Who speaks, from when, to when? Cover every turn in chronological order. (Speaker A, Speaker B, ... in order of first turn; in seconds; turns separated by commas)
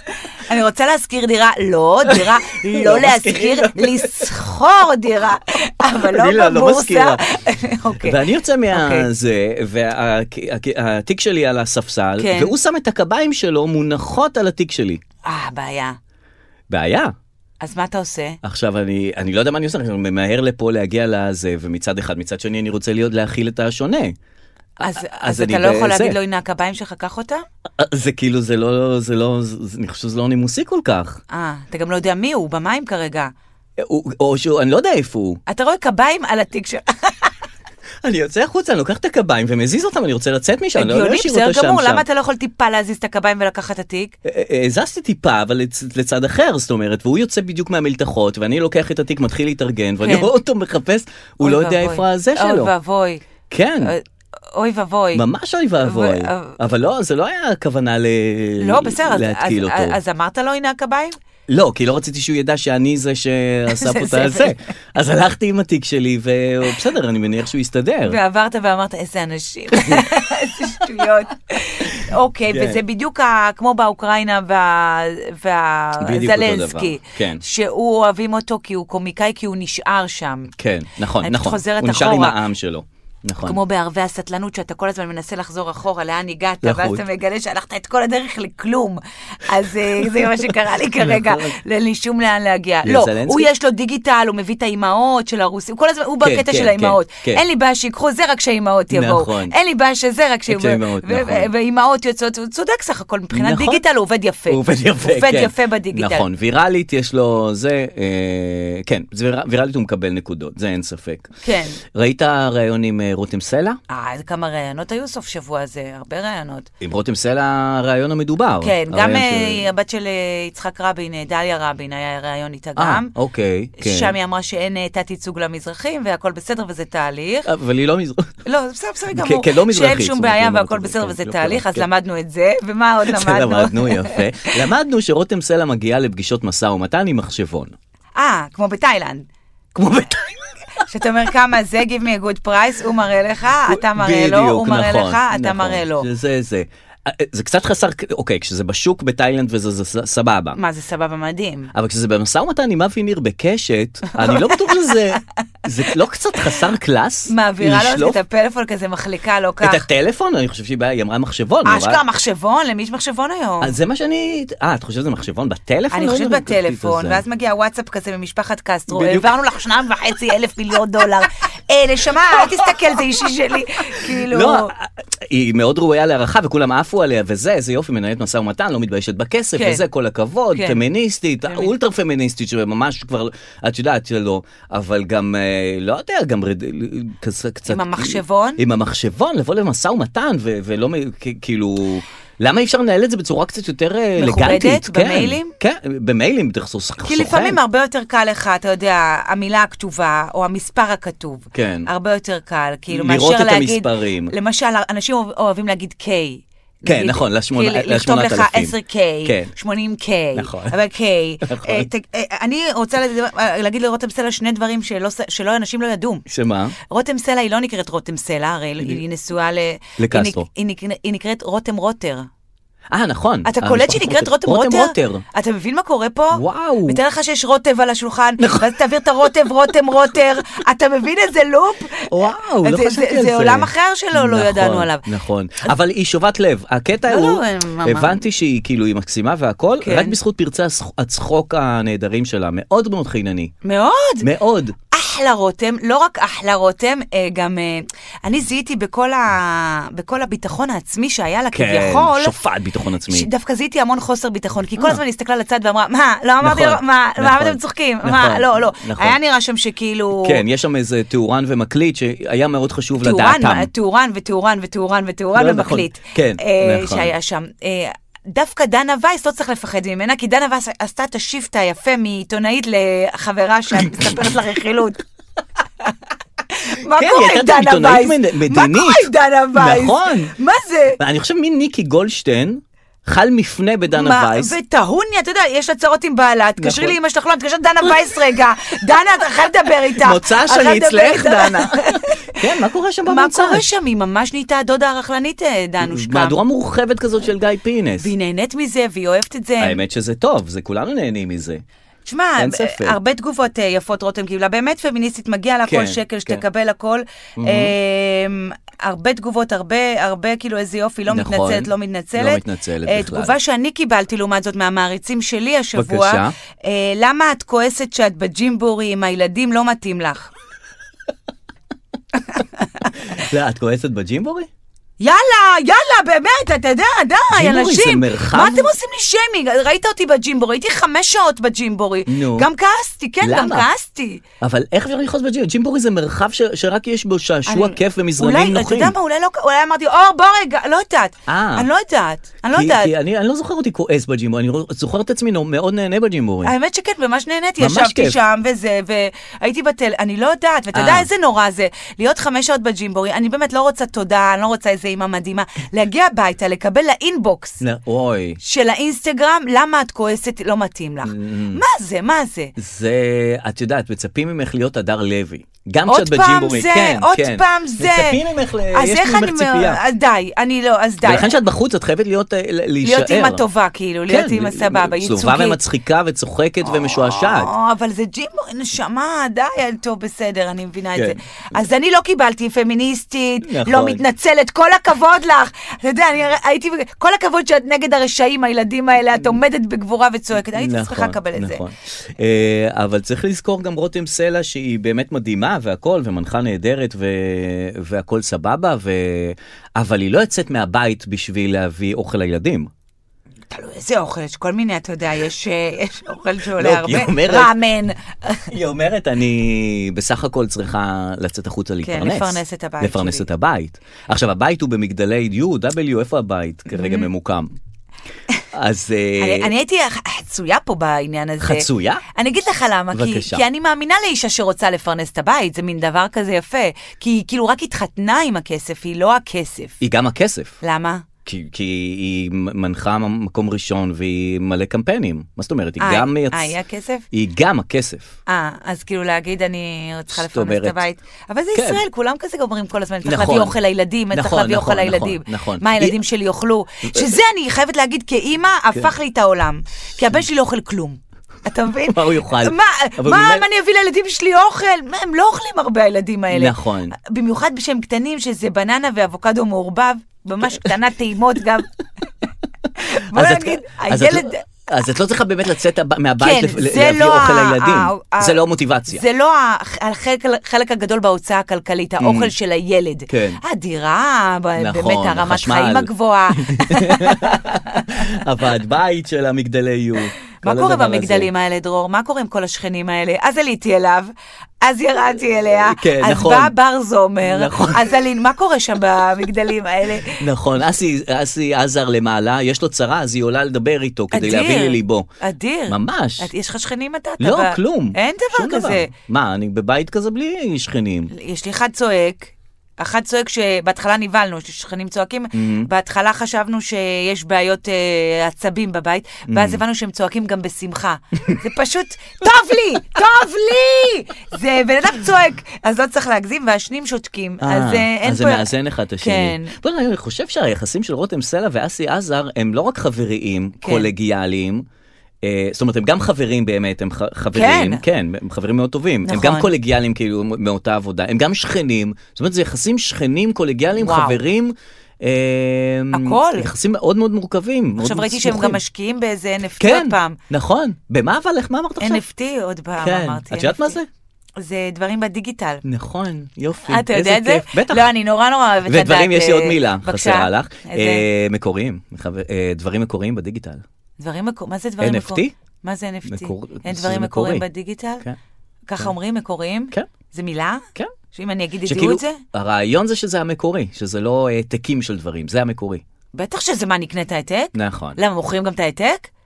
Speaker A: 0.5-8.2, Speaker B: 2.1-4.3, Speaker B: 5.9-7.2, Speaker B: 8.0-15.0, Speaker A: 8.7-9.1, Speaker A: 12.2-12.5, Speaker A: 15.2-16.0, Speaker B: 16.7-17.1, Speaker A: 17.6-18.4, Speaker B: 18.4-24.1, Speaker A: 24.8-27.4, Speaker B: 24.8-26.2, Speaker B: 27.8-31.2, Speaker A: 31.3-33.3, Speaker B: 33.8-35.4, Speaker A: 35.5-37.3, Speaker B: 38.0-42.0, Speaker A: 40.8-44.1, Speaker B: 44.2-52.7, Speaker A: 50.0-50.3, Speaker A: 51.4-53.2, Speaker B: 53.5-53.9, Speaker A: 54.5-55.2, Speaker B: 55.1-60.0, Speaker A: 55.8-56.6, Speaker A: 58.6-61.1, Speaker B: 61.5-68.2, Speaker A: 63.8-64.5, Speaker A: 68.0-80.5, Speaker B: 69.7-70.0, Speaker B: 71.9-72.8, Speaker B: 76.0-77.4, Speaker B: 80.6-83.6, Speaker A: 81.2-82.4, Speaker A: 83.4-106.2, Speaker B: 86.6-87.0, Speaker B: 89.9-91.5, Speaker B: 92.8-93.5, Speaker B: 96.2-97.4, Speaker B: 98.9-99.5, Speaker B: 100.5-101.5, Speaker B: 103.3-103.8, Speaker B: 104.5-111.3, Speaker A: 111.4-111.8, Speaker B: 111.9-113.8, Speaker A: 113.9-116.7, Speaker B: 116.8-119.6, Speaker A: 118.6-123.1, Speaker B: 122.8-124.1, Speaker A: 123.8-127.5, Speaker B: 127.5-128.3, Speaker A: 128.4-134.5, Speaker B: 129.1-131.9, Speaker B: 133.1-137.8, Speaker A: 138.2-139.2, Speaker B: 139.8-140.3, Speaker A: 140.9-146.1, Speaker B: 143.7-150.6, Speaker A: 150.5-151.7, Speaker B: 151.7-158.2, Speaker A: 154.1-155.0, Speaker A: 157.3-159.8, Speaker B: 159.6-162.0, Speaker A: 161.6-163.8, Speaker B: 163.6-167.2, Speaker A: 165.9-174.7, Speaker B: 168.9-169.4, Speaker B: 172.3-172.8, Speaker B: 174.0-197.6, Speaker A: 179.5-179.8, Speaker A: 180.5-180.8, Speaker A: 181.4-181.7, Speaker A: 187.7-188.6, Speaker A: 194.2-195.5, Speaker A: 197.0-216.2, Speaker B: 201.5-201.9, Speaker B: 202.9-204.3, Speaker B: 206.9-209.5, Speaker B: 210.3-210.8, Speaker B: 211.4-211.9, Speaker B: 216.3-216.8, Speaker A: 216.9-222.3, Speaker B: 220.0-220.4, Speaker B: 222.9-225.2, Speaker A: 223.4-235.1, Speaker B: 226.3-227.0, Speaker B: 228.4-228.7, Speaker B: 232.1-243.5, Speaker A: 237.1-238.2, Speaker A: 239.8-240.2, Speaker A: 243.6-244.2, Speaker B: 244.2-244.8, Speaker A: 244.9-252.3, Speaker B: 251.5-253.3, Speaker A: 253.1-260.4, Speaker B: 256.4-259.2, Speaker B: 260.2-263.7, Speaker A: 263.0-275.0, Speaker B: 265.4-267.1, Speaker B: 273.8-274.1, Speaker A: 276.5-281.0, Speaker B: 276.9-280.3, Speaker B: 281.0-284.5, Speaker A: 283.9-292.4, Speaker B: 286.6-287.0, Speaker B: 290.0-293.6, Speaker A: 293.1-296.4, Speaker B: 295.8-298.1, Speaker A: 298.0-299.8, Speaker B: 299.6-301.6, Speaker A: 302.1-320.3, Speaker B: 302.4-303.0, Speaker B: 305.7-306.4, Speaker B: 307.4-307.7, Speaker B: 311.1-313.4, Speaker B: 315.8-316.3, Speaker B: 323.0-324.5, Speaker A: 325.0-334.2, Speaker B: 327.3-328.7, Speaker B: 332.1-332.5, Speaker B: 333.2-333.7, Speaker B: 334.4-338.9, Speaker A: 337.5-342.9, Speaker B: 341.3-341.7, Speaker B: 342.5-346.5, Speaker A: 346.4-357.6, Speaker B: 347.6-348.2, Speaker B: 350.7-351.1, Speaker B: 357.6-358.4, Speaker A: 358.4-362.5, Speaker B: 361.1-361.6, Speaker B: 362.6-369.8, Speaker A: 365.9-368.2, Speaker A: 368.7-371.4, Speaker B: 371.0-373.4, Speaker A: 372.8-375.6, Speaker B: 374.1-377.5, Speaker A: 376.6-391.6, Speaker B: 383.4-384.0, Speaker B: 390.5-402.7, Speaker A: 403.5-408.5, Speaker B: 406.6-407.5, Speaker B: 408.5-417.5, Speaker A: 411.8-413.2, Speaker A: 416.7-417.1, Speaker B: 418.5-419.5, Speaker A: 419.2-429.8, Speaker B: 421.4-422.0, Speaker B: 422.9-423.4, Speaker B: 429.8-430.6, Speaker A: 430.6-431.0, Speaker B: 431.2-436.5, Speaker A: 435.8-437.0, Speaker B: 437.1-438.1, Speaker A: 438.3-461.7, Speaker B: 440.1-440.8, Speaker B: 441.5-441.8, Speaker B: 443.0-443.6, Speaker B: 444.1-446.0, Speaker B: 446.8-447.1, Speaker B: 451.9-453.4, Speaker B: 456.3-456.9, Speaker A: 462.8-464.4, Speaker B: 463.1-469.0, Speaker A: 466.2-477.9, Speaker B: 472.0-472.3, Speaker B: 473.1-473.4, Speaker B: 474.6-481.3, Speaker A: 480.4-484.1, Speaker A: 484.6-490.2, Speaker B: 485.6-486.5, Speaker B: 487.2-488.0, Speaker B: 490.1-495.1, Speaker A: 494.1-498.9, Speaker B: 495.7-496.3, Speaker B: 497.2-501.1, Speaker A: 501.1-519.5, Speaker B: 505.3-505.7, Speaker B: 509.3-509.6, Speaker B: 517.4-524.6, Speaker A: 523.6-523.9, Speaker B: 525.2-538.6, Speaker A: 527.3-527.8, Speaker A: 529.0-529.5, Speaker A: 533.8-534.2, Speaker A: 535.9-536.5, Speaker A: 537.8-540.2, Speaker B: 539.6-542.0, Speaker A: 541.8-543.8, Speaker B: 542.8-543.9, Speaker A: 544.4-545.6, Speaker B: 545.6-547.9, Speaker A: 546.7-551.1, Speaker B: 548.6-553.6, Speaker A: 554.0-558.0, Speaker B: 554.8-555.3, Speaker B: 556.1-557.4, Speaker A: 558.7-562.2, Speaker B: 561.6-565.8, Speaker A: 566.1-569.1, Speaker B: 567.5-568.0